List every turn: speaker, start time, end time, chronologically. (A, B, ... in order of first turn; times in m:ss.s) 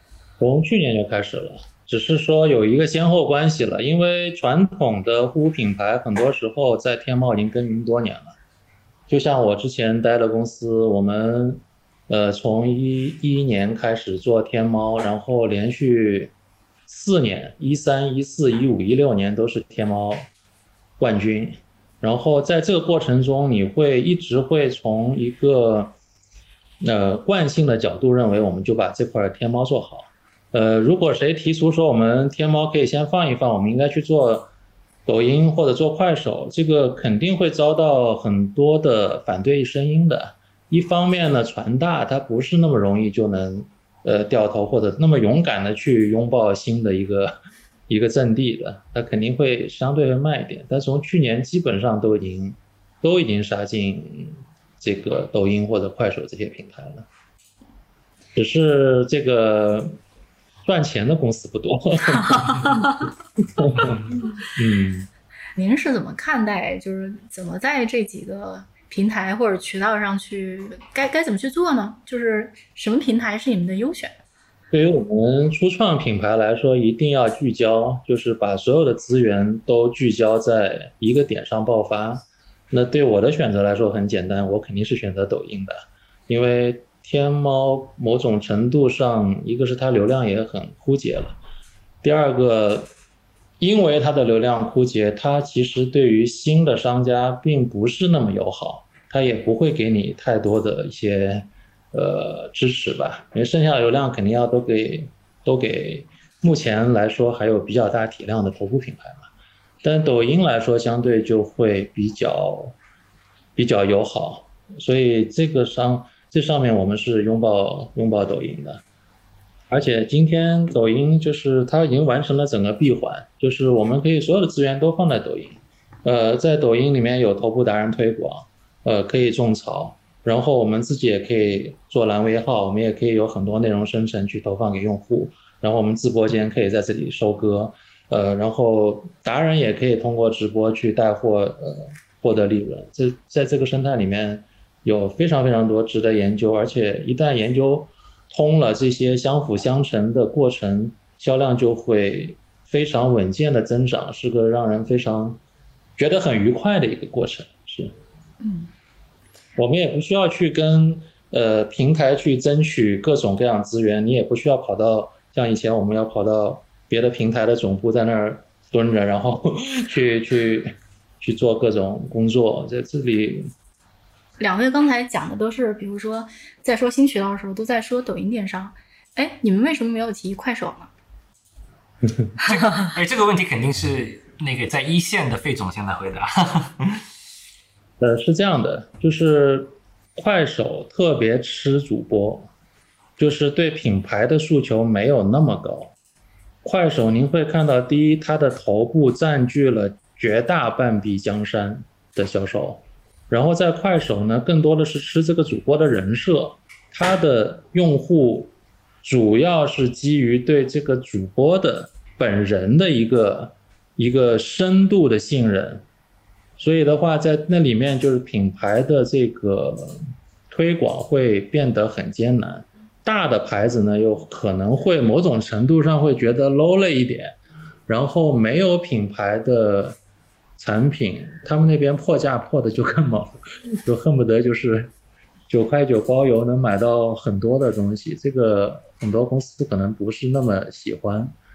0:00.4-0:08.3 A
0:09.1-0:16.3 A
0:16.9-0:20.3 A
0:21.0-0:25.9 A
0:26.8-0:34.5 A
0:35.0-0:47.4 A
0:47.9-0:57.1 A
0:58.4-1:00.0 A
1:00.6-1:02.8 A
1:02.5-1:02.8 B
1:03.6-1:05.1 A
1:05.6-1:14.1 B
1:14.7-1:31.4 A
1:32.0-1:32.9 A
1:33.6-1:49.2 A
1:49.8-1:52.7 A
1:53.6-1:58.8 A
1:59.7-2:35.4 A
2:36.0-2:37.9 A
2:38.4-2:38.7 B
2:39.6-2:53.5 A
2:54.4-3:00.9 B
3:02.4-3:07.0 C
3:08.0-3:12.5 A
3:13.2-3:15.9 A
3:16.6-3:28.5 A
3:29.0-3:35.8 A
3:36.6-3:47.4 A
3:47.9-3:50.0 A
3:50.6-3:54.9 A
3:55.5-4:01.3 A